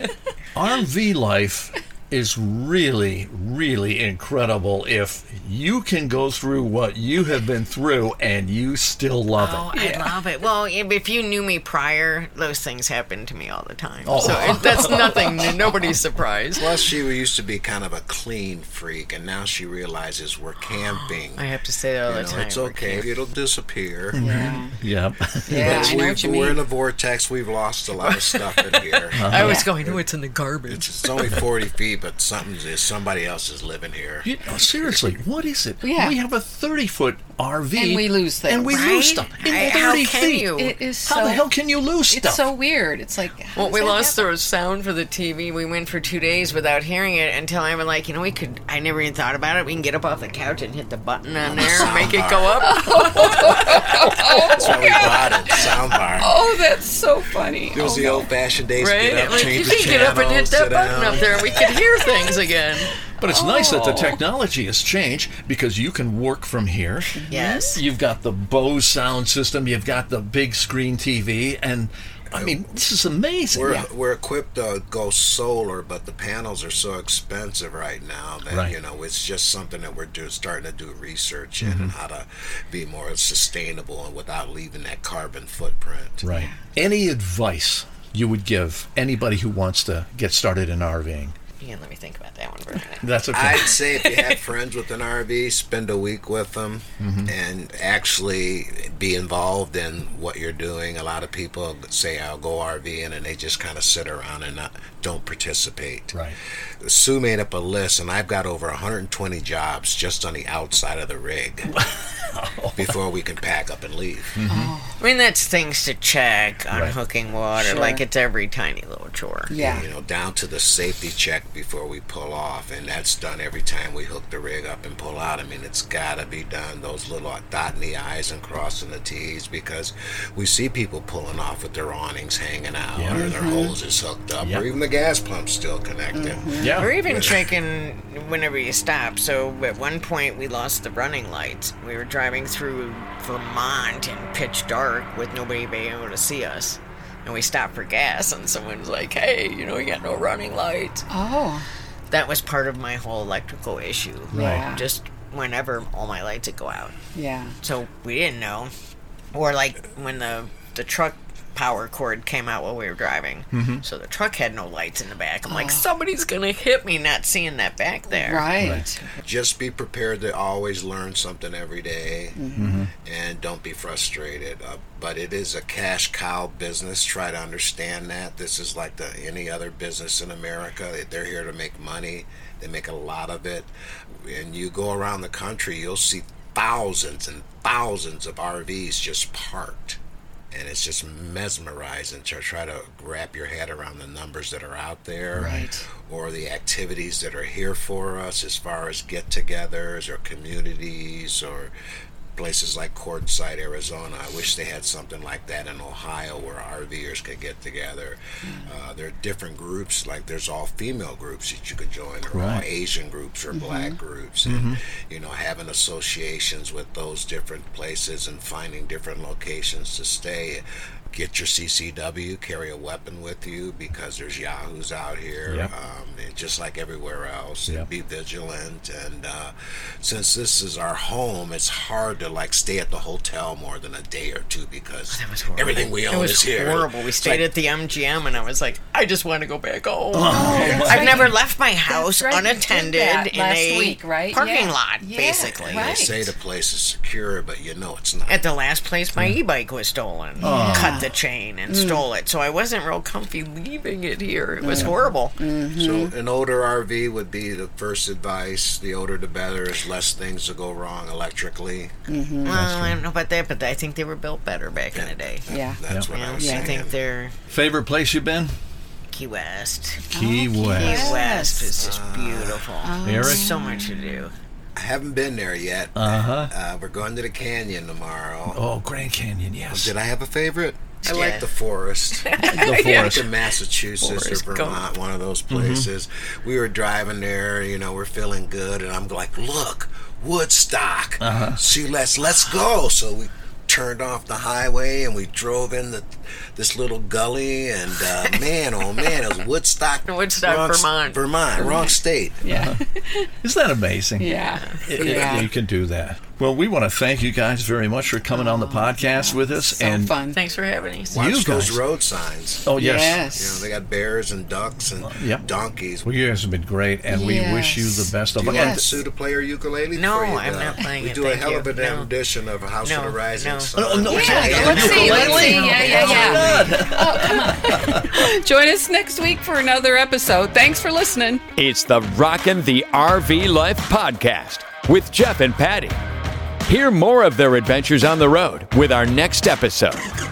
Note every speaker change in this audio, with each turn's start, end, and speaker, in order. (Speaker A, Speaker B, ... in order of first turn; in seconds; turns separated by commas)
Speaker A: 0.6-10.1, Speaker B: 9.3-16.7, Speaker A: 14.1-15.8, Speaker C: 14.2-15.6, Speaker D: 16.5-21.4, Speaker B: 20.9-23.1, Speaker D: 22.1-24.4, Speaker A: 24.1-25.8, Speaker C: 24.2-24.8, Speaker D: 25.5-30.1, Speaker C: 25.5-26.6, Speaker B: 28.0-31.4, Speaker A: 29.2-29.7, Speaker C: 29.4-29.7, Speaker D: 30.7-35.1, Speaker A: 34.2-40.5, Speaker C: 35.8-36.2, Speaker C: 37.8-38.8, Speaker B: 38.7-40.8, Speaker C: 40.5-41.5, Speaker A: 41.0-42.5, Speaker C: 42.1-44.3, Speaker B: 43.5-55.0, Speaker D: 51.4-56.4, Speaker C: 52.7-58.3, Speaker D: 57.7-62.0, Speaker B: 58.8-62.9, Speaker A: 59.2-59.9, Speaker A: 63.2-73.8, Speaker C: 63.2-64.2, Speaker C: 67.2-67.8, Speaker B: 67.3-67.8, Speaker D: 72.3-72.7, Speaker D: 73.5-86.2, Speaker A: 78.5-78.8, Speaker A: 81.6-81.9, Speaker A: 86.2-91.3, Speaker B: 91.6-94.4, Speaker A: 93.0-93.8, Speaker D: 93.3-106.2, Speaker A: 97.0-97.3, Speaker D: 106.8-111.7, Speaker A: 111.7-113.0, Speaker D: 112.8-114.4, Speaker A: 114.4-114.7, Speaker C: 114.5-115.0, Speaker B: 115.0-119.5, Speaker C: 117.6-118.0, Speaker C: 119.5-119.8, Speaker A: 119.6-119.9, Speaker D: 119.6-137.5, Speaker A: 133.0-133.3, Speaker C: 133.2-133.7, Speaker C: 136.1-136.7, Speaker A: 136.6-136.9, Speaker B: 136.8-151.1, Speaker C: 151.1-151.7, Speaker B: 152.1-157.0, Speaker C: 154.3-154.9, Speaker A: 154.3-154.7, Speaker C: 157.2-157.6, Speaker B: 157.6-158.7, Speaker B: 159.3-168.5, Speaker A: 163.5-163.8, Speaker C: 165.5-165.9, Speaker C: 168.1-169.1, Speaker A: 168.6-168.8, Speaker D: 169.2-172.4, Speaker C: 172.4-172.8, Speaker A: 172.6-172.9, Speaker D: 172.9-190.0, Speaker D: 190.5-201.7, Speaker A: 195.3-195.6, Speaker C: 195.4-195.8, Speaker D: 202.3-237.5, Speaker C: 208.4-208.7, Speaker A: 212.3-212.7, Speaker C: 213.5-214.0, Speaker A: 214.4-214.8, Speaker B: 235.1-246.0, Speaker A: 240.1-241.3, Speaker C: 240.3-246.3, Speaker D: 245.7-248.4, Speaker B: 248.3-255.4, Speaker C: 250.4-251.1, Speaker A: 250.4-251.0, Speaker C: 251.7-252.0, Speaker C: 254.6-256.1, Speaker D: 255.7-262.0, Speaker C: 262.1-262.6, Speaker B: 262.4-265.5, Speaker A: 262.5-263.0, Speaker D: 264.9-266.9, Speaker C: 265.5-265.8, Speaker B: 266.1-267.4, Speaker C: 266.4-266.7, Speaker A: 267.5-268.6, Speaker B: 269.1-270.1, Speaker A: 270.1-271.2, Speaker C: 270.1-271.7, Speaker B: 270.7-274.3, Speaker D: 271.8-272.8, Speaker C: 272.8-274.2, Speaker A: 273.0-273.6, Speaker D: 274.8-278.6, Speaker A: 276.0-276.5, Speaker A: 278.5-279.9, Speaker D: 279.7-302.5, Speaker B: 281.0-281.5, Speaker B: 282.2-283.2, Speaker A: 282.5-283.3, Speaker B: 284.0-284.8, Speaker A: 285.5-285.9, Speaker A: 291.2-291.6, Speaker B: 298.2-299.2, Speaker B: 300.1-301.8, Speaker C: 301.6-301.9, Speaker C: 302.4-303.3, Speaker A: 302.5-302.8, Speaker A: 303.4-310.1, Speaker C: 304.2-305.5, Speaker B: 304.5-305.4, Speaker C: 308.3-310.4, Speaker B: 310.3-311.2, Speaker D: 311.1-312.7, Speaker A: 311.1-311.8, Speaker A: 312.7-313.3, Speaker C: 312.8-313.7, Speaker D: 313.3-316.1, Speaker A: 315.0-315.5, Speaker A: 316.0-319.0, Speaker C: 317.1-318.8, Speaker D: 318.4-326.4, Speaker B: 319.9-322.1, Speaker B: 322.8-327.3, Speaker A: 323.7-328.1, Speaker C: 324.2-331.4, Speaker E: 331.6-336.0, Speaker E: 336.7-340.1